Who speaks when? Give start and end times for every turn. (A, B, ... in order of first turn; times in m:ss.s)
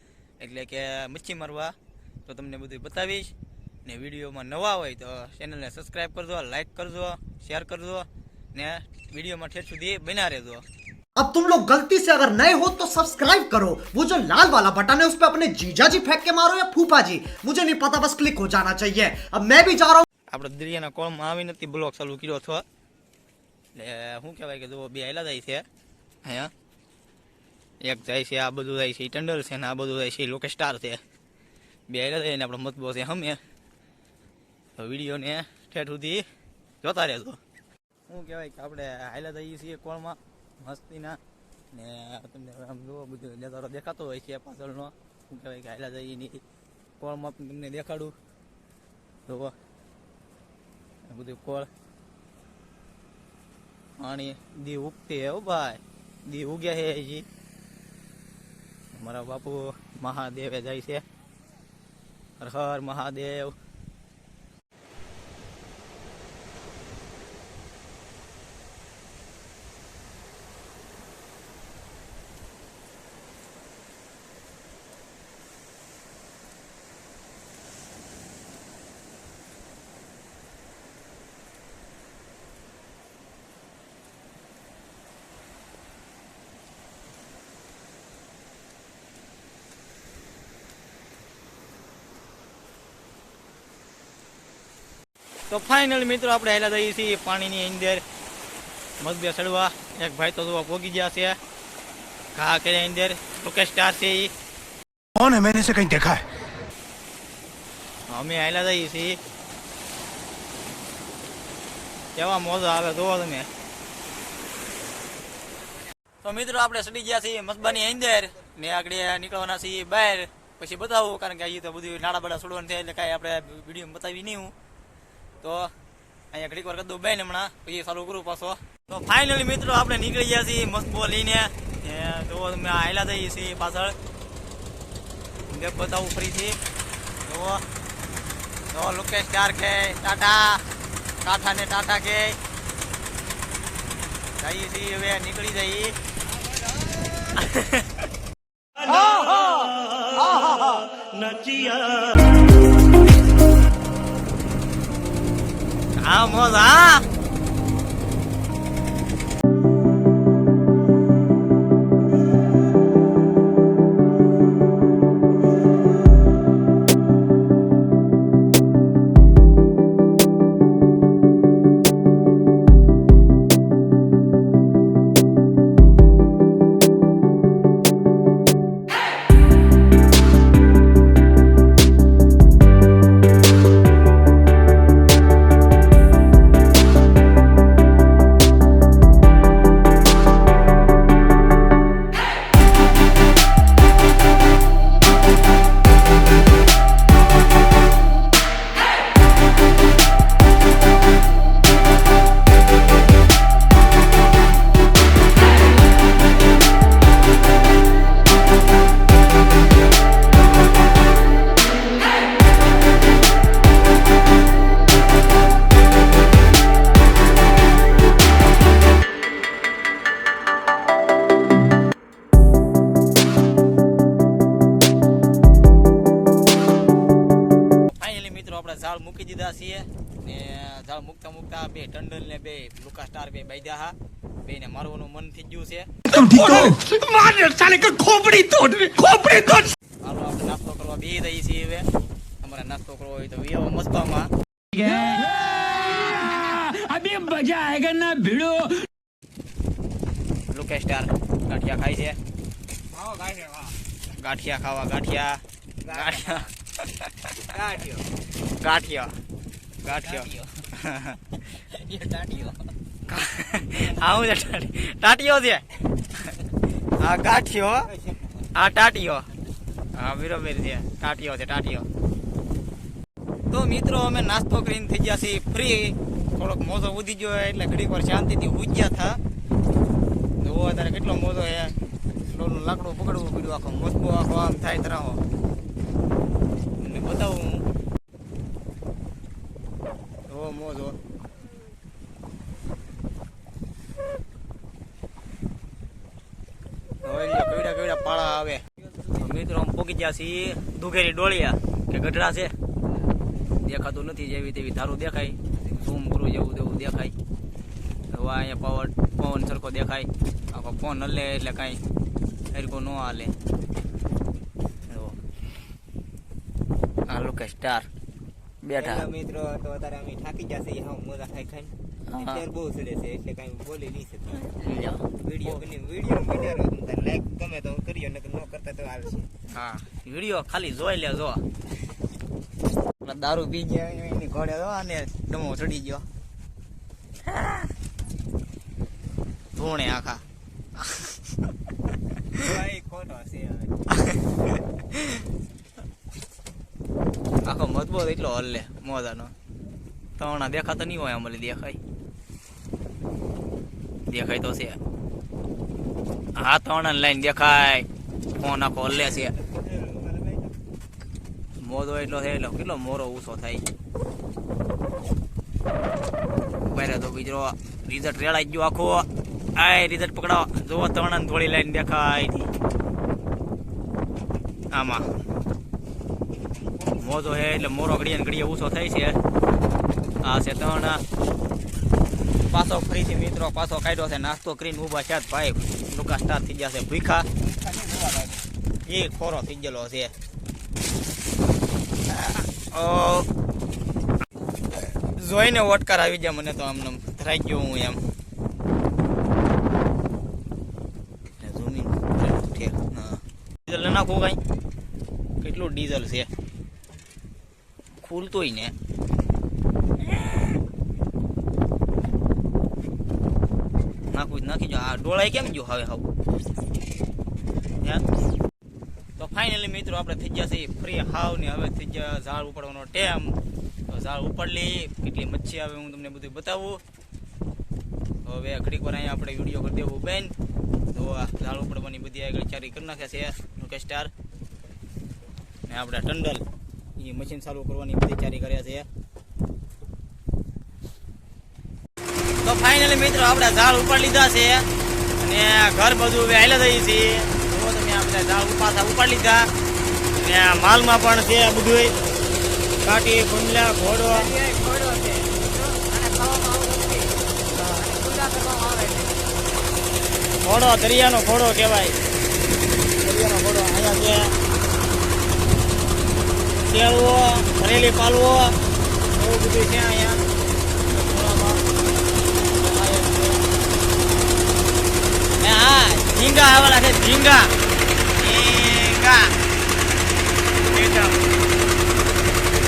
0:00.4-0:01.7 A
0:02.3-0:03.3 A
0:03.9-0:10.6 A
0:11.2-0:20.1 B
0:20.3-0:22.6 A
0:23.8-0:25.6 A
0:26.2-0:26.5 A
0:27.8-0:31.0 A
0:31.9-0:33.4 A
0:34.8-0:36.3 A
0:36.8-0:37.4 A
0:38.1-0:41.2 A
0:41.7-0:46.4 A
0:47.0-0:48.2 A
0:49.3-0:49.5 A
0:51.1-0:51.7 A
0:54.0-0:57.3 A
0:58.9-1:01.0 A
1:02.4-1:03.6 A
1:35.5-1:38.0 A
1:39.0-1:41.4 A
1:42.4-1:44.3 A
1:45.2-1:46.2 C
1:48.1-1:49.2 A
1:52.2-1:53.5 A
1:56.2-2:04.5 A
2:05.4-2:05.7 A
2:06.3-2:14.0 A
2:15.5-2:16.6 A
2:17.3-2:17.6 A
2:18.7-2:20.6 A
2:21.2-2:22.4 A
2:24.4-2:25.9 A
2:27.3-2:27.9 A
2:28.9-2:30.7 A
2:36.0-2:37.0 A
3:47.9-3:55.9 A
3:56.1-3:59.7 C
3:56.4-3:58.6 D
3:59.4-3:59.7 D
4:00.0-4:01.9 A
4:02.4-4:04.3 A
4:04.7-4:08.9 D
4:10.5-4:12.2 A
4:12.9-4:13.8 E
4:14.1-4:17.4 A
4:15.8-4:16.5 E
4:17.5-4:18.1 E
4:18.6-4:19.2 A
4:19.8-4:21.4 A
4:19.9-4:20.5 E
4:21.8-4:22.6 E
4:23.1-4:25.6 A
4:27.0-4:27.9 A
4:27.9-4:28.5 E
4:28.5-4:29.3 A
4:30.0-4:31.9 A
4:33.5-4:39.2 A
4:40.4-4:41.8 A
4:42.3-4:45.2 A
4:46.8-4:47.6 A
4:50.3-4:51.0 A
4:57.0-5:02.6 A
5:03.6-5:07.1 A
5:08.1-5:11.8 A
5:12.5-5:13.3 A
5:14.9-5:15.2 A
5:17.1-5:17.9 A
5:18.6-5:19.1 A
5:18.8-5:24.5 E
5:22.1-5:22.4 A
5:24.4-5:25.6 A
5:25.2-5:29.3 E
5:29.5-5:31.4 A
5:33.0-5:36.0 A
5:39.6-5:40.2 A
5:40.8-5:41.2 A
5:42.4-5:43.8 E
5:43.9-5:44.2 A
5:44.9-5:45.2 A
5:47.4-5:49.3 A
5:50.2-5:51.8 A
5:54.1-5:54.8 A
5:56.4-5:57.9 A
5:58.4-5:59.4 A
5:59.0-6:00.5 E
6:01.6-6:03.6 A
6:06.6-6:12.5 A
6:14.7-6:15.1 A
6:17.0-6:19.2 A
6:20.2-6:21.0 A
6:22.5-6:27.3 A
6:27.4-6:28.4 E
6:28.8-6:30.1 A
6:32.1-6:33.3 A
6:34.8-6:38.0 A
6:41.4-6:44.4 A
6:45.4-6:46.3 A
6:48.0-6:48.7 A
6:54.1-6:56.1 A
6:59.2-7:03.3 A
7:03.9-7:06.8 A
7:08.2-7:10.3 A
7:10.9-7:14.1 A
7:15.7-7:16.4 A
7:17.0-7:18.9 A
7:22.4-7:24.7 A
7:25.2-7:29.5 A
7:30.2-7:31.9 A
7:32.8-7:34.3 A
7:34.1-7:37.2 E
7:37.5-7:37.8 A
7:37.8-7:39.2 E
7:40.4-7:42.0 A
7:43.0-7:44.3 A
7:46.7-7:48.6 A
7:49.1-7:50.2 A
7:50.9-7:51.6 A
7:52.6-7:53.4 A
7:55.4-7:57.5 A
7:58.2-7:59.3 A
8:00.7-8:01.2 A